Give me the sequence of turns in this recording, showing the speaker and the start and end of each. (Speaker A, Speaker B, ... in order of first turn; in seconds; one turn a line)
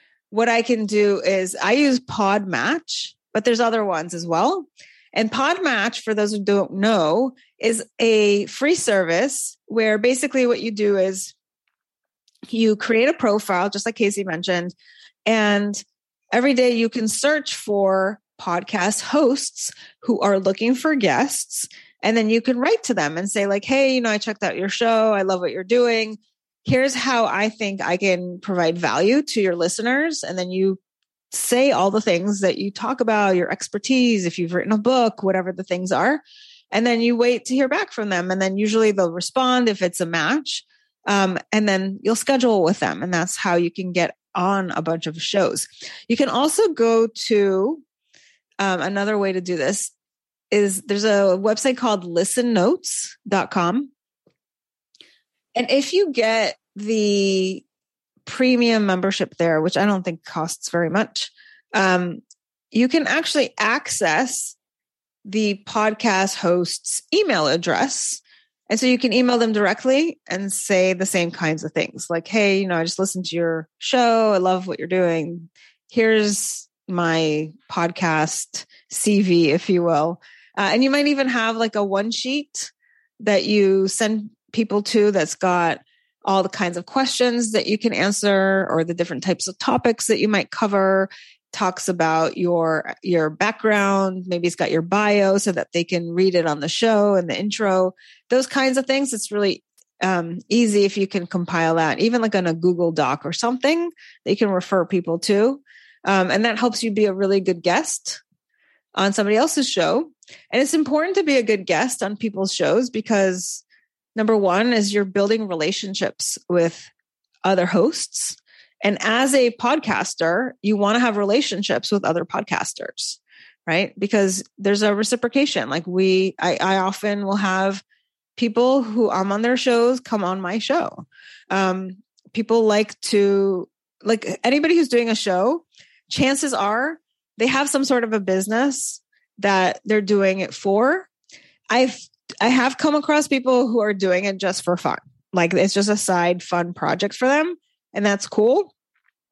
Speaker A: 0.3-11.3
Speaker A: 12.5-14.8
Speaker A: 15.3-30.8
Speaker A: 31.3-47.8
Speaker A: 48.6-49.9
Speaker A: 50.5-53.9
Speaker A: 55.6-57.6
Speaker A: 58.2-64.6
Speaker A: 65.2-108.2
Speaker A: 109.0-113.6
Speaker A: 114.2-116.9
Speaker A: 117.4-127.8
Speaker A: 128.4-141.1
Speaker A: 141.7-148.7